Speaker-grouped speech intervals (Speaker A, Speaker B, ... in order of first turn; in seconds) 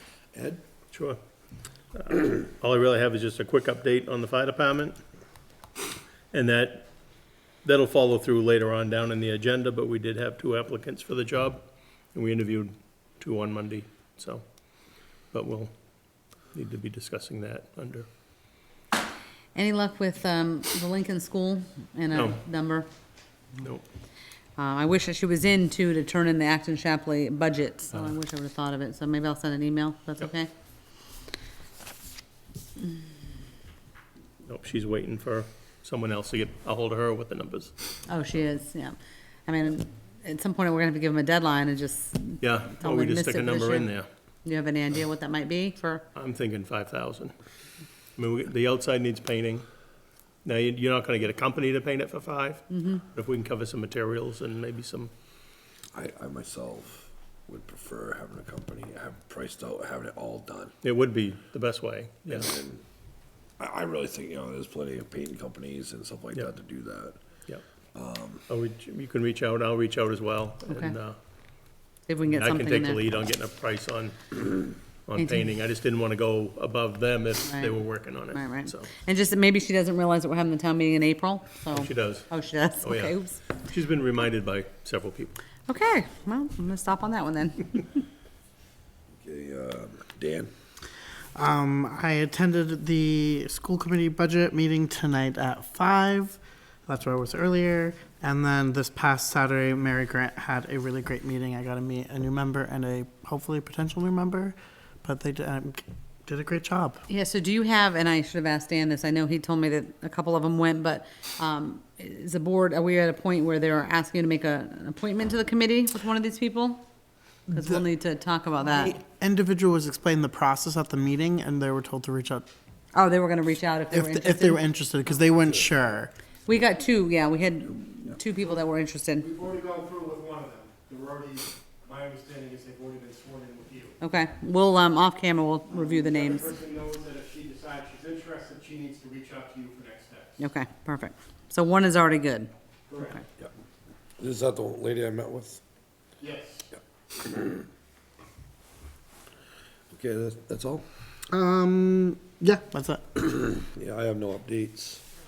Speaker A: 0.3-0.6, 55.9-60.7, 62.3-62.8, 63.6-67.2, 68.0-68.4, 89.2-90.5, 144.2-145.6, 147.2-147.6, 149.9-150.8, 153.6-155.1
Speaker B: 0.9-1.2, 1.9-5.0, 6.3-6.9, 7.6-14.5, 15.3-15.7, 16.5-18.1, 23.6-23.8, 34.5-37.7, 42.4-44.1, 46.1-47.3, 48.2-49.6, 50.5-55.1, 60.8-62.5, 68.5-71.2, 72.3-78.9, 81.7-82.3, 82.8-85.4
Speaker C: 19.6-22.9, 24.6-30.5, 38.1-39.0, 39.5-43.9, 44.5-46.0, 52.7-53.0, 70.7-71.0, 72.1-73.0, 75.2-75.5, 77.5-77.7, 78.3-83.4, 85.7-87.9, 107.1-116.8, 117.5-119.0, 122.9-124.6, 126.5-129.3, 134.0-136.6, 140.4-142.5
Speaker D: 91.3-107.0, 117.5-117.8, 118.7-122.5, 123.9-126.1, 151.3-153.5
Speaker E: 129.2-134.0, 135.8-140.4, 142.9-143.2, 146.2-146.7